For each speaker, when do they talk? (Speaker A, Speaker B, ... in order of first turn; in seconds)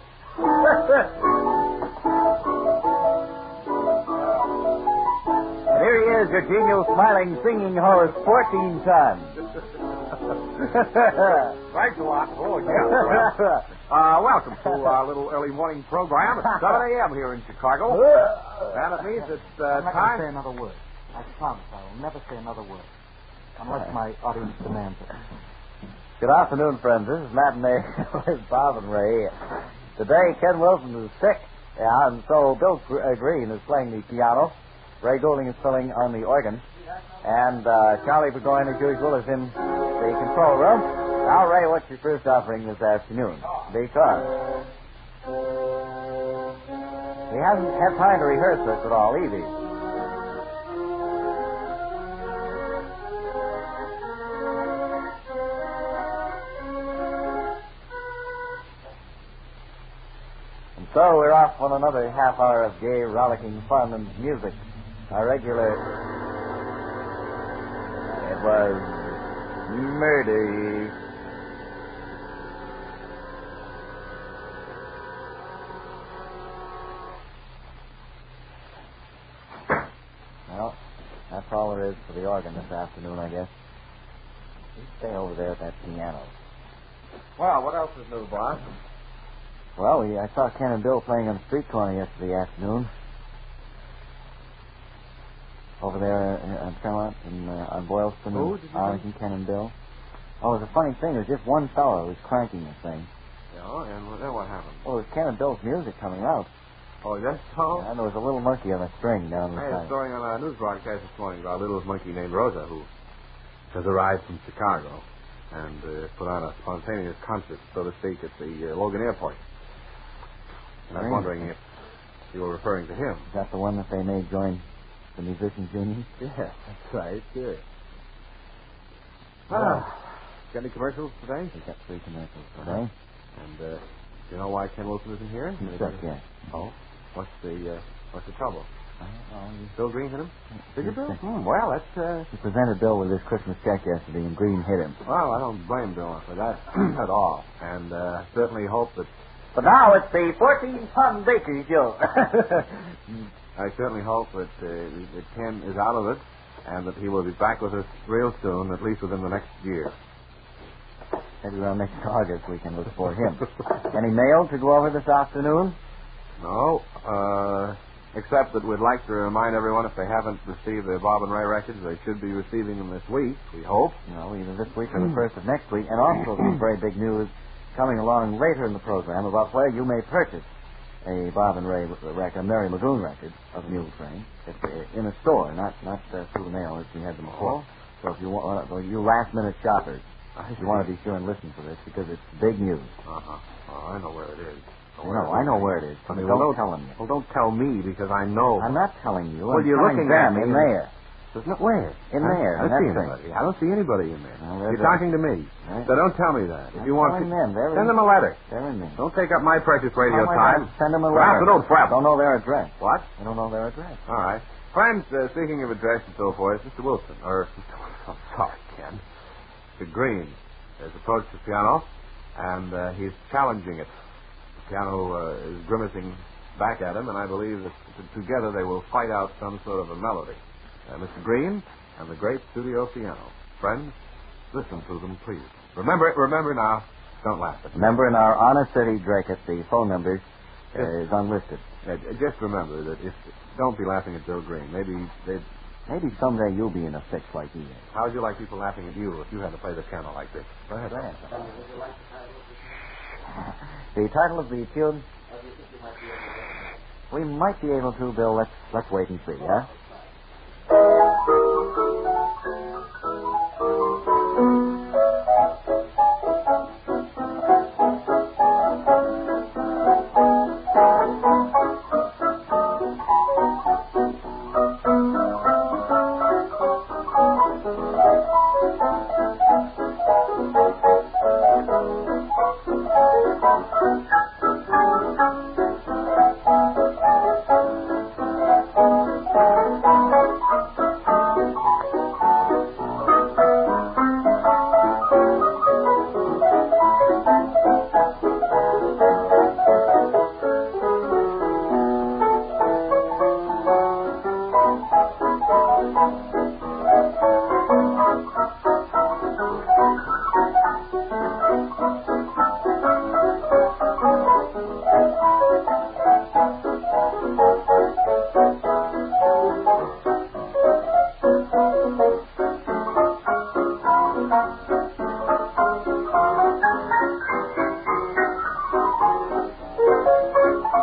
Speaker A: 0.6-1.0, 5.7-9.4, 11.1-11.4, 12.7-13.5, 18.0-18.7, 26.2-29.3, 29.9-36.6, 37.2-44.4, 47.3-49.5, 60.8-64.6, 65.1-65.9, 68.2-70.9, 80.5-80.8, 81.3-83.5, 84.8-86.3, 87.4-88.7, 89.8-92.9, 95.8-99.7, 100.4-103.1, 104.8-106.5, 107.7-109.9, 120.9-121.5, 123.3-124.6, 125.1-126.3, 129.5-129.9, 131.5-132.9, 135.6-136.4, 139.0-139.7, 140.7-141.2, 142.3-145.0, 149.5-152.8, 161.4-165.8, 174.1-180.5, 181.0-190.0, 190.6-192.9, 195.0-197.0, 198.6-200.9, 202.1-203.2, 204.4-205.0, 205.6-205.9, 206.7-209.0, 210.0-214.0, 237.7-241.6, 245.9-247.9, 250.7-251.7, 253.9-255.1, 257.1-259.7
Speaker B: 10.6-18.1, 18.7-20.3, 98.3-99.0, 103.5-104.8, 107.0-107.9, 109.5-112.9, 113.7-119.4, 120.9-121.6, 122.3-123.3, 126.2-127.6, 129.5-129.9, 130.5-131.5, 133.3-138.7, 139.7-142.3, 145.0-149.1, 153.6-159.9, 166.4-174.0, 187.3-187.6, 190.3-190.9, 193.0-198.8, 199.5-200.7, 201.3-208.4, 208.9-212.0, 212.8-213.1, 214.1-219.0, 219.8-223.9, 224.7-233.9, 234.5-238.0, 241.8-245.4, 247.9-251.2
Speaker C: 19.2-22.9, 23.6-25.1